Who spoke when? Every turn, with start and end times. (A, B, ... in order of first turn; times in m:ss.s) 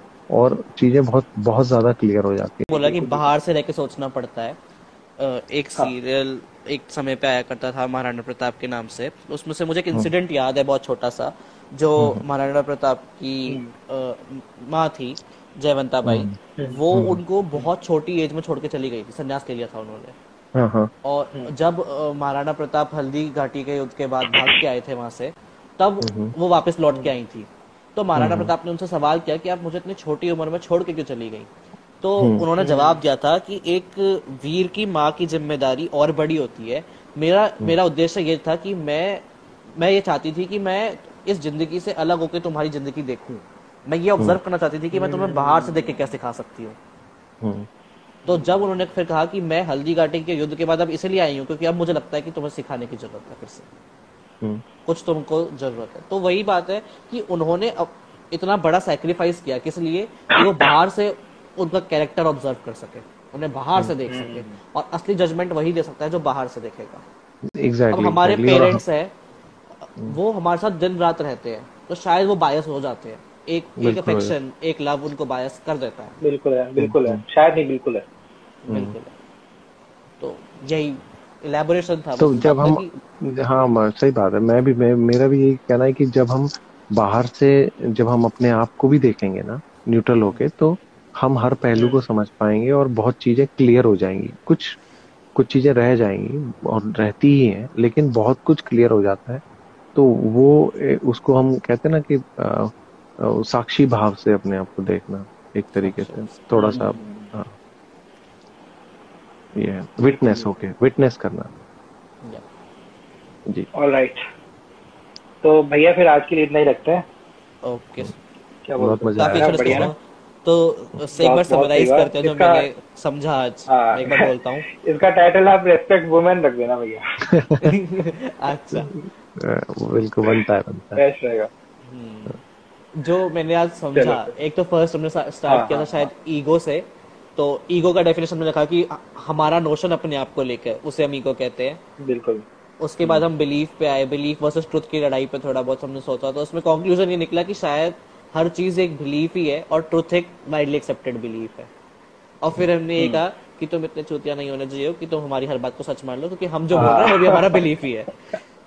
0:00.3-0:03.0 A
0:02.7-0:04.6 B
0:05.2-0:20.2 B
0:12.0-0:12.2 A
0:13.5-0:13.7 C
0:16.0-0:16.4 A
0:16.9-0:17.2 A
0:20.6-0:20.9 A
0:21.0-0:31.5 B
0:26.0-0:26.3 A
0:28.2-0:28.5 A
0:32.0-0:39.2 B
0:32.2-0:32.5 A
0:32.6-0:33.0 C
0:39.8-0:46.8 B
0:44.9-0:46.1 C
0:47.4-0:47.7 A
0:48.3-0:53.7 B
0:48.3-0:48.7 C
0:54.8-1:07.0 B
1:04.1-1:04.6 C
1:07.5-1:08.8 A
1:07.9-1:09.1 B
1:09.8-1:16.2 B
1:13.8-1:14.4 A
1:16.2-1:18.0 C
1:16.8-1:17.2 A
1:18.7-1:19.1 B
1:18.7-1:19.0 A
1:20.2-1:22.9 B
1:22.2-1:34.8 A
1:35.4-1:39.4 A
1:40.0-1:47.5 A
1:45.8-1:47.0 B
1:46.6-1:47.3 C
1:49.6-1:51.5 A
1:50.1-1:50.5 C
1:53.7-1:54.2 C
1:55.4-1:57.0 C
1:57.6-1:58.1 B
1:58.6-1:59.9 C
1:58.8-1:59.9 A
1:59.2-2:04.7 B
2:01.2-2:02.7 C
2:03.7-2:07.3 C
2:07.3-2:07.7 A
2:07.6-2:08.9 B
2:09.4-2:11.0 A
2:11.0-2:11.5 C
2:11.9-2:12.4 B
2:13.0-2:21.8 B
2:14.0-2:14.3 C
2:15.5-2:16.1 C
2:22.0-2:22.4 C
2:22.8-2:31.7 B
2:32.4-2:38.2 B
2:36.8-2:37.7 C